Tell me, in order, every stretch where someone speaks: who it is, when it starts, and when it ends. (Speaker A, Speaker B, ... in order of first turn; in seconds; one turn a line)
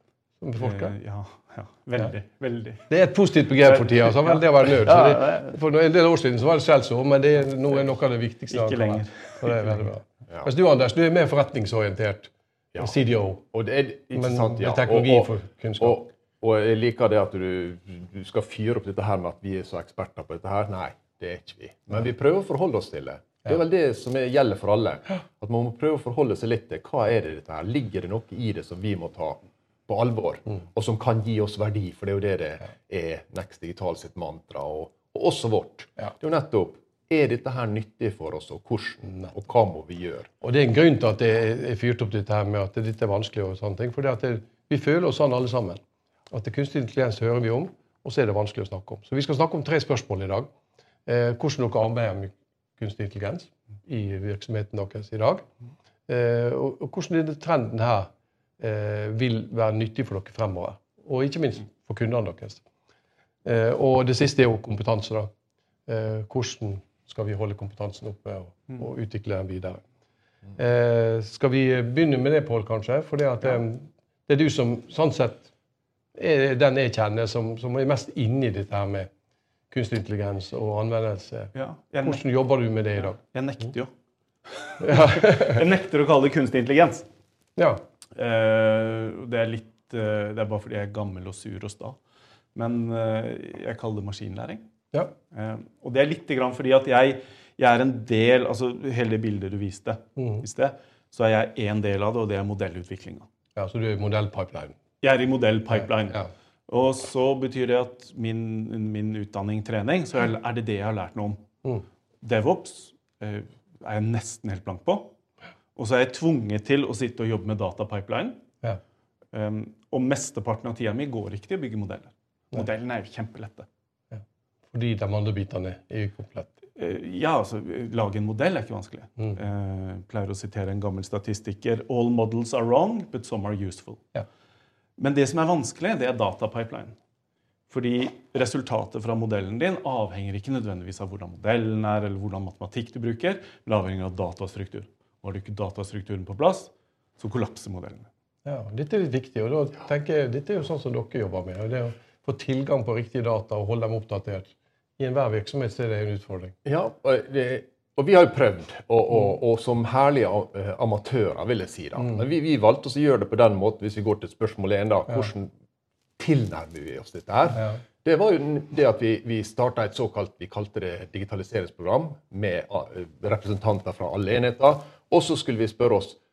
Speaker A: 0.4-0.9
Speaker B: 0.6-2.9
Speaker A: 2.9-13.5
Speaker B: 3.6-5.5
Speaker B: 8.5-9.7
Speaker C: 13.5-40.3
Speaker A: 14.1-16.1
Speaker A: 40.4-50.5
Speaker A: 51.1-55.4
Speaker A: 56.1-62.6
Speaker A: 63.5-65.3
Speaker A: 65.9-69.8
Speaker A: 70.5-75.5
Speaker A: 76.2-79.1
Speaker A: 79.7-81.5
Speaker B: 81.5-82.2
Speaker A: 82.0-83.2
Speaker B: 83.1-83.9
Speaker B: 84.5-87.1
Speaker A: 84.8-85.6
Speaker B: 88.2-92.0
Speaker B: 92.5-94.6
Speaker B: 95.3-103.3
Speaker A: 100.2-100.4
Speaker A: 103.6-104.8
Speaker B: 105.0-111.4
Speaker B: 112.2-115.1
Speaker B: 115.8-118.4
Speaker B: 119.3-123.7
Speaker A: 124.1-126.5
Speaker B: 126.8-134.0
Speaker B: 135.0-136.9
Speaker B: 137.7-148.1
Speaker A: 148.4-156.6
Speaker C: 156.7-165.5
Speaker C: 166.2-176.2